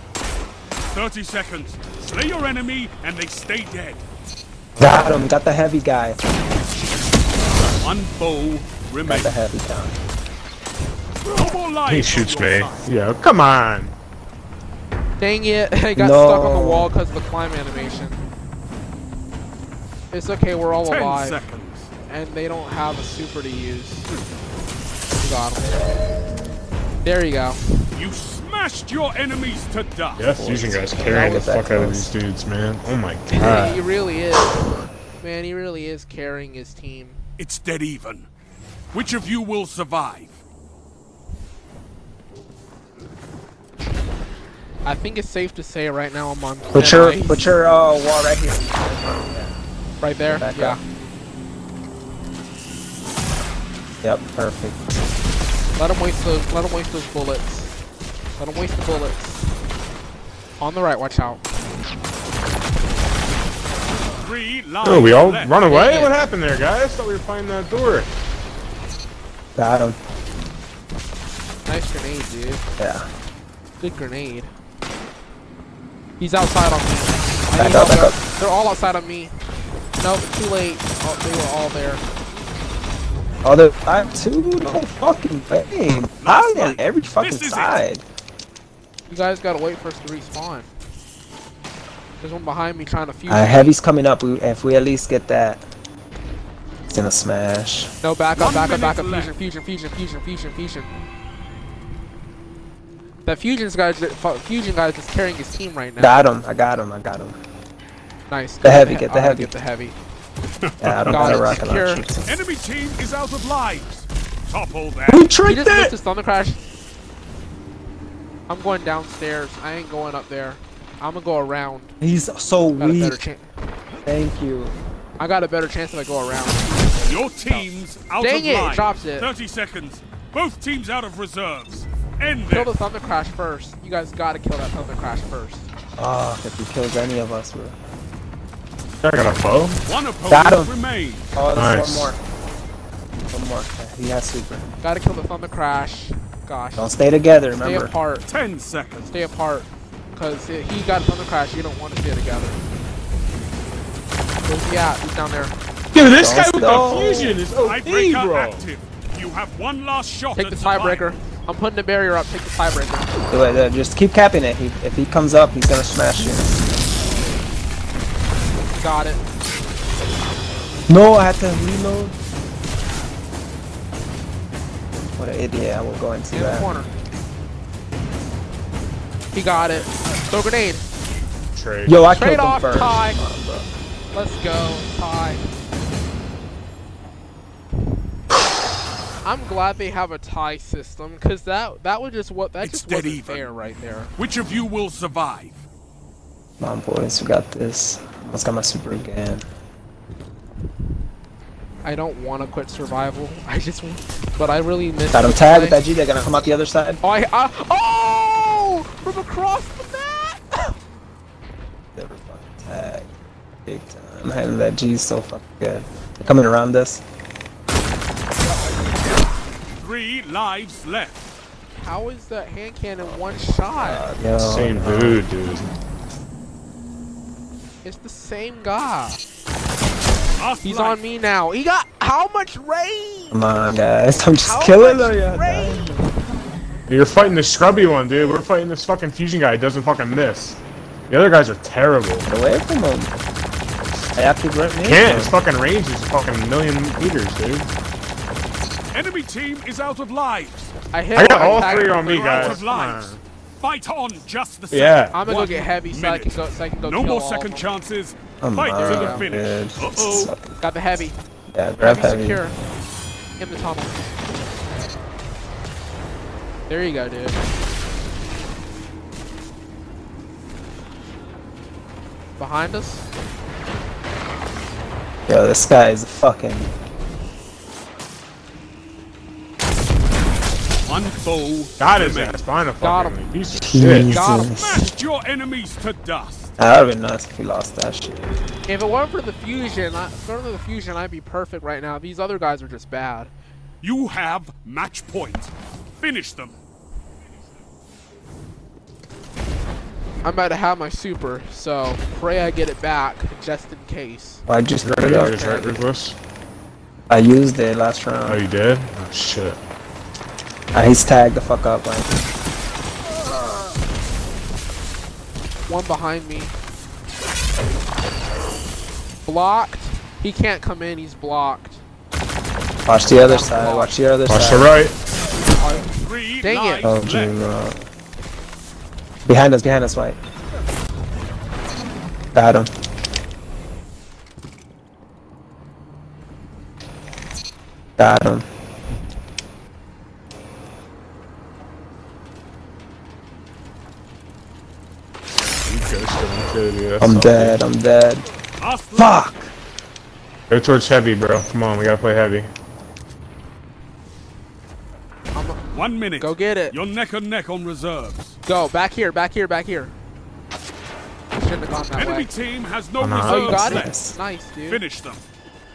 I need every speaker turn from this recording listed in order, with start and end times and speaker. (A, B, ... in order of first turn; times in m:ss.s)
0:00.9-0:04.0 A
0:04.8-0:05.2 B
0:04.8-0:06.2 C
0:07.5-0:07.9 B
0:07.8-0:09.3 A
0:09.0-0:09.9 C
0:11.2-0:12.9 A
0:11.9-0:13.9 B
0:15.2-0:18.2 D
0:16.0-0:16.9 C
0:20.1-0:21.4 D
0:20.8-0:21.9 A
0:22.1-0:24.1 D
0:25.2-0:25.8 D
0:27.0-0:27.6 D
0:27.9-0:30.3 A
0:30.2-0:33.8 B
0:30.3-0:32.1 C
0:31.1-0:31.5 D
0:33.3-0:34.6 D
0:35.2-0:37.2 D
0:37.4-0:38.3 A
0:38.9-0:40.4 A
0:44.8-0:47.4 D
0:46.7-0:49.6 C
0:50.0-0:50.8 D
0:50.2-0:50.8 C
0:54.0-0:55.0 C
0:55.8-0:57.8 D
0:58.4-0:59.5 D
1:00.6-1:01.4 D
1:04.2-1:05.7 A
1:04.8-1:08.1 B
1:05.7-1:06.1 D
1:09.6-1:10.0 C
1:11.6-1:12.6 D
1:12.8-1:13.1 C
1:13.8-1:14.5 D
1:16.2-1:19.3 D
1:17.6-1:18.2 C
1:20.0-1:22.0 D
1:23.4-1:28.0 C
1:26.2-1:27.8 A
1:29.1-1:30.7 D
1:32.2-1:33.7 D
1:33.3-1:35.6 C
1:36.9-1:37.9 C
1:38.0-1:40.9 D
1:38.4-1:39.3 A
1:43.2-1:46.2 D
1:46.0-1:47.4 C
1:48.3-1:50.0 D
1:48.6-1:49.5 C
1:50.8-1:52.4 C
1:50.8-1:51.4 B
1:51.1-1:52.0 D
1:52.2-1:55.3 A
1:55.1-1:55.9 C
1:55.4-1:56.6 D
1:58.5-2:01.9 D
2:02.0-2:03.2 C
2:02.8-2:03.5 D
2:04.0-2:04.7 C
2:05.2-2:07.7 D
2:07.0-2:12.7 A
2:08.2-2:09.3 D
2:12.5-2:15.7 D
2:16.0-2:17.8 C
2:19.0-2:19.8 B
2:19.8-2:21.3 A
2:20.3-2:20.7 C
2:21.3-2:22.2 C
2:21.5-2:22.1 B
2:23.3-2:24.6 C
2:24.8-2:26.9 D
2:26.8-2:27.9 C
2:27.5-2:28.2 D
2:28.2-2:29.1 A
2:29.1-2:32.6 D
2:34.4-2:35.5 D
2:35.9-2:38.7 B
2:36.0-2:37.4 C
2:37.6-2:41.1 A
2:40.3-2:43.1 D
2:43.3-2:46.6 C
2:48.7-2:49.2 D
2:50.9-2:52.1 C
2:55.2-2:56.7 C
2:56.3-2:56.9 D
2:59.3-3:00.8 D
3:01.5-3:02.1 B
3:01.9-3:03.7 C
3:02.1-3:03.2 D
3:04.1-3:05.4 D
3:09.2-3:14.1 D
3:12.6-3:13.4 A
3:14.2-3:15.6 A
3:16.6-3:19.4 C
3:21.8-3:25.8 D
3:25.1-3:27.0 C
3:27.0-3:30.8 D
3:31.9-3:33.1 C
3:33.6-3:37.0 C
3:39.8-3:41.2 A
3:41.8-3:44.0 D
3:43.7-3:45.2 C
3:44.4-3:45.7 B
3:47.8-3:49.2 D
3:50.4-3:51.0 A
3:50.6-3:53.4 D
3:53.3-3:56.1 C
3:54.4-3:56.0 D
3:56.9-4:02.3 B
3:57.1-3:58.4 C
4:02.2-4:03.1 C
4:04.1-4:05.4 C
4:04.8-4:07.7 B
4:08.9-4:10.7 A
4:10.9-4:12.6 D
4:11.2-4:13.2 B
4:11.3-4:20.3 A
4:14.7-4:15.2 B
4:15.1-4:17.7 D
4:18.4-4:20.6 C
4:18.8-4:19.3 D
4:20.6-4:21.2 D
4:21.5-4:22.4 C
4:21.8-4:22.6 D
4:23.4-4:24.0 D
4:26.7-4:27.4 D
4:32.4-4:33.1 D
4:35.3-4:36.7 C
4:40.9-4:42.4 A
4:41.8-4:44.2 B
4:42.8-4:43.2 D
4:43.6-4:44.9 C
4:44.1-4:44.6 D
4:44.3-4:46.5 A
4:46.6-4:48.3 C
4:48.7-4:53.3 D
4:53.8-4:56.6 A
5:00.2-5:04.4 D
5:04.5-5:05.6 C
5:04.8-5:06.2 B
5:05.1-5:05.8 D
5:07.1-5:08.4 C
5:08.3-5:09.6 B
5:10.7-5:12.2 C
5:15.7-5:16.5 D
5:19.2-5:21.8 D
5:22.8-5:24.8 C
5:23.0-5:24.0 D
5:24.3-5:25.0 B
5:25.5-5:26.9 D
5:26.0-5:27.4 A
5:26.8-5:27.8 C
5:29.2-5:30.2 C
5:32.3-5:32.7 C
5:38.0-5:38.4 C
5:45.6-5:47.6 B
5:47.0-5:48.2 C
5:48.6-5:49.2 A
5:48.9-5:49.5 C
5:50.5-5:52.5 B
5:55.3-5:55.6 D
5:55.7-5:58.4 A
5:56.2-5:56.7 D
5:58.4-5:59.9 D
6:01.3-6:02.3 D
6:01.9-6:03.9 A
6:03.0-6:03.4 B
6:03.2-6:04.8 D
6:03.4-6:04.2 C
6:04.7-6:05.2 A